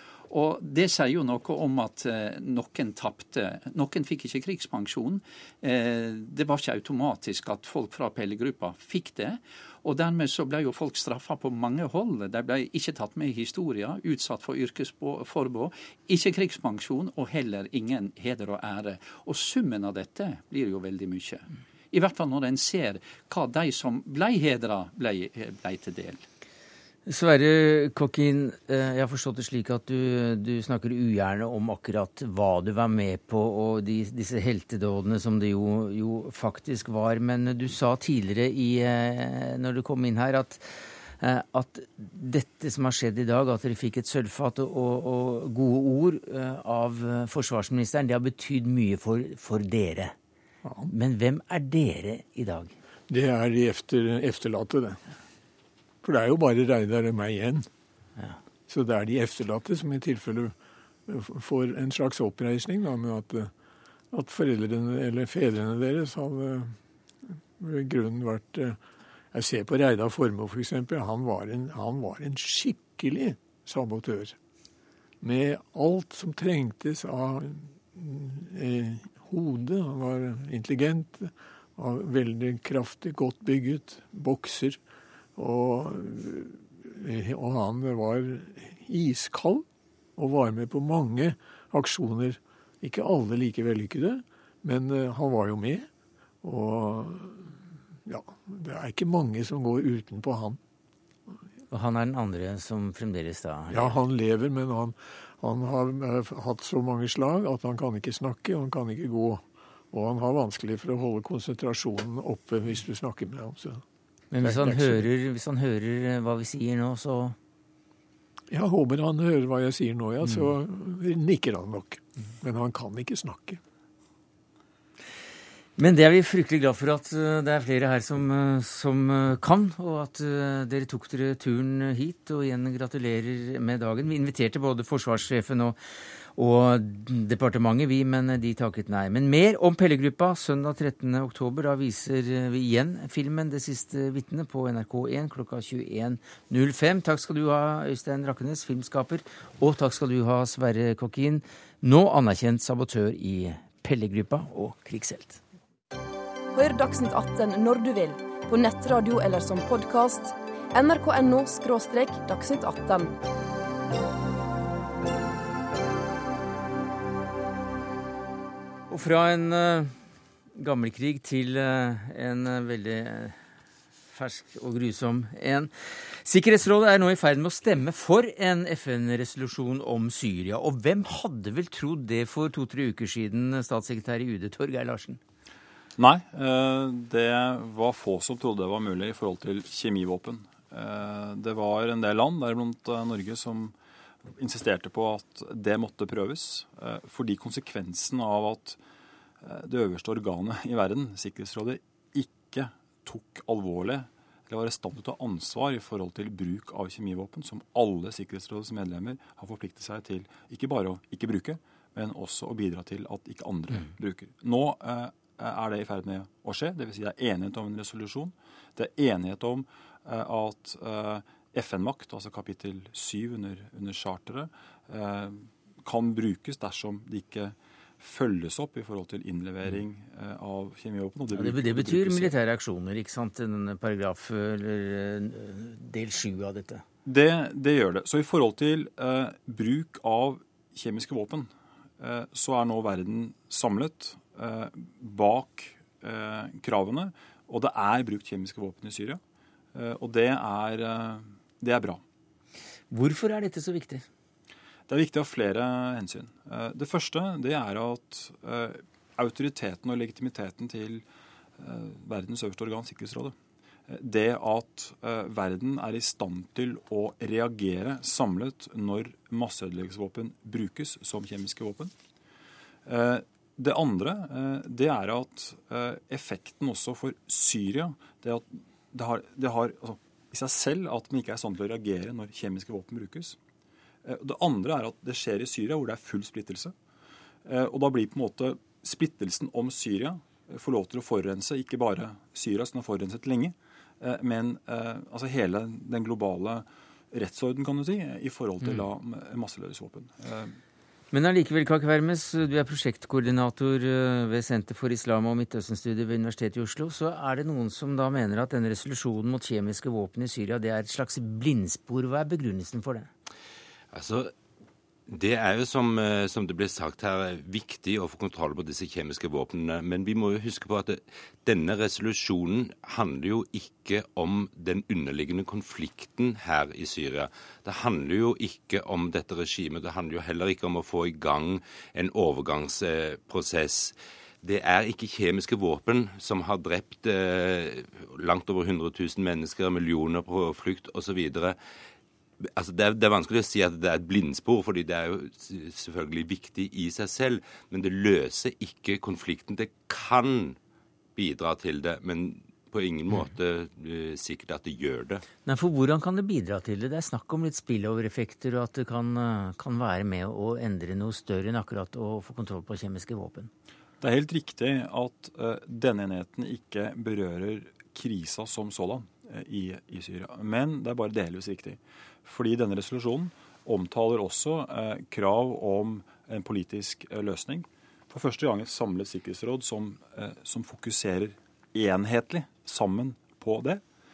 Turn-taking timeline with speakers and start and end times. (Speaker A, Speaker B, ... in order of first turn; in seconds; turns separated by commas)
Speaker A: 0.3-26.2, Speaker B: 27.1-50.1, Speaker C: 50.6-50.9, Speaker B: 50.9-52.7, Speaker C: 53.1-55.0, Speaker C: 56.0-57.7, Speaker C: 58.7-60.5, Speaker C: 61.1-63.5, Speaker C: 64.1-66.8, Speaker C: 67.6-68.8, Speaker C: 69.3-74.4, Speaker C: 75.2-84.8, Speaker C: 85.4-89.6, Speaker C: 90.2-95.9, Speaker C: 96.4-100.6, Speaker B: 101.7-103.9, Speaker C: 103.7-113.8, Speaker B: 114.3-117.4, Speaker C: 114.4-115.0, Speaker C: 118.5-123.6, Speaker B: 125.8-135.8, Speaker B: 136.3-155.4, Speaker D: 156.6-163.1, Speaker B: 168.9-169.9, Speaker B: 170.6-173.4, Speaker B: 174.1-185.2, Speaker E: 186.0-193.7, Speaker E: 194.3-198.8, Speaker E: 199.4-232.3, Speaker B: 231.3-236.8, Speaker E: 237.1-249.2, Speaker E: 249.8-252.0, Speaker B: 252.9-254.1, Speaker E: 254.9-261.0, Speaker E: 261.6-263.3, Speaker E: 263.9-271.9, Speaker E: 272.9-283.4, Speaker E: 284.0-286.7, Speaker E: 287.4-300.6, Speaker B: 301.1-313.1, Speaker F: 313.9-314.3, Speaker F: 315.1-341.6, Speaker F: 342.4-350.6, Speaker F: 351.2-355.2, Speaker B: 355.5-363.5, Speaker E: 364.0-383.8